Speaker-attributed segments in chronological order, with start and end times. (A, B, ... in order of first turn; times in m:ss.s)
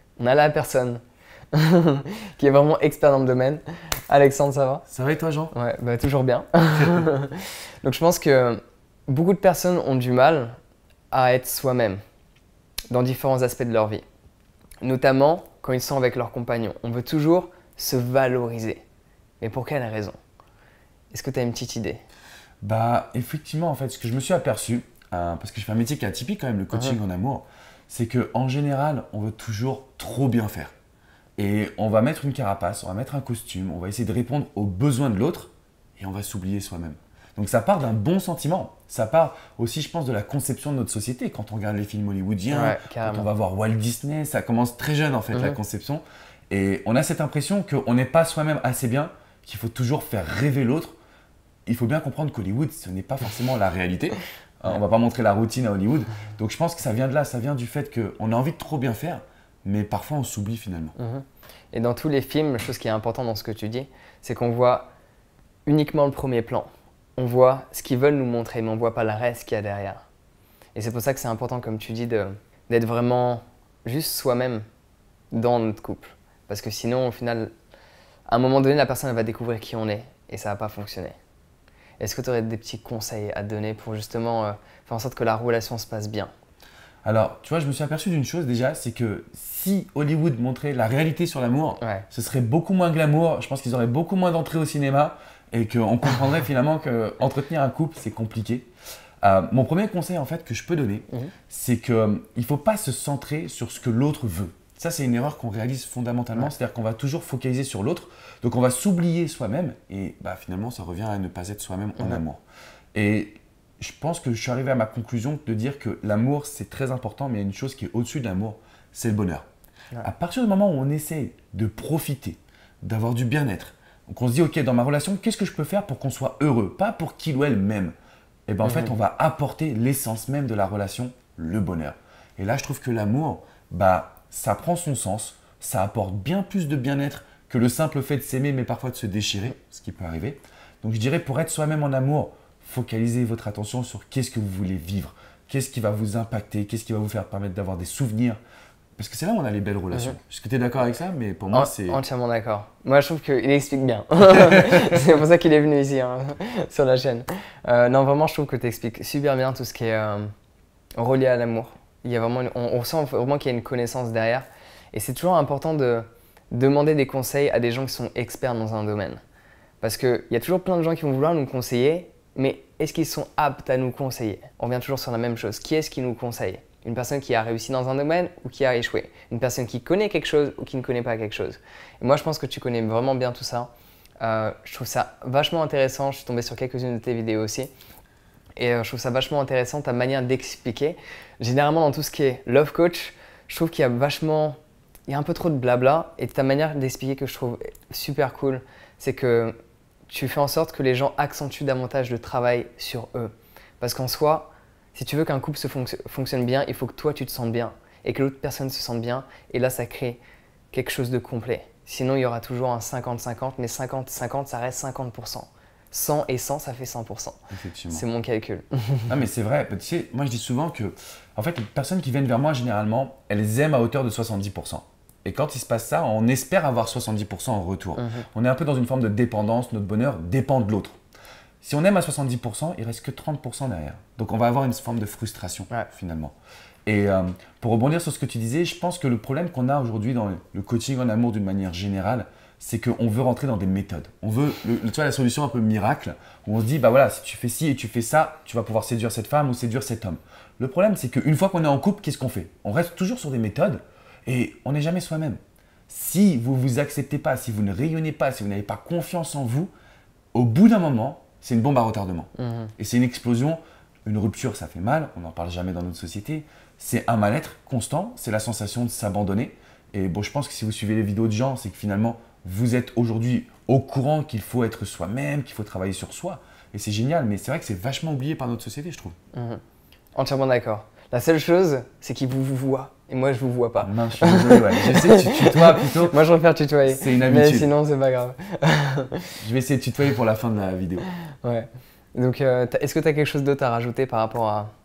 0:00.2-0:01.0 A
0:01.5-0:04.9 A
0:04.9-0:05.5 B
0:05.5-0:10.6 A
0:11.1-0:12.0 A
0:12.9-0:14.0 A
0:14.8-0:18.8 A
0:19.4-0:20.2 A
0:21.1-0:22.0 A
0:22.6-0:30.7 B
0:31.4-0:51.0 B
0:42.5-0:43.3 A
0:45.3-0:45.6 A
0:51.7-1:01.0 B
1:01.0-1:04.9 A
1:05.7-1:10.0 A
1:10.8-1:14.6 A
1:15.3-1:17.5 A
1:18.3-1:21.2 A
1:22.0-1:26.3 A
1:27.0-1:38.7 B
1:39.2-1:52.4 B
1:52.9-1:59.4 B
2:00.0-2:07.9 B
2:08.5-2:28.4 B
2:08.6-2:08.9 A
2:29.0-2:32.0 B
2:31.5-2:40.3 A
2:34.4-2:34.9 B
2:41.0-2:49.2 A
2:49.8-3:07.7 A
3:08.6-3:19.6 A
3:20.1-3:30.2 A
3:30.7-3:37.4 A
3:37.5-3:38.0 B
3:37.9-3:39.1 A
3:39.1-3:50.9 B
3:48.0-3:48.2 A
3:51.6-3:56.4 B
3:56.9-4:19.7 B
4:20.3-4:39.2 B
4:22.4-4:22.7 A
4:39.3-4:39.6 A
4:40.2-4:49.3 A
4:43.8-4:46.2 B
4:46.9-4:47.7 B
4:49.4-4:51.1 B
4:51.4-4:54.7 A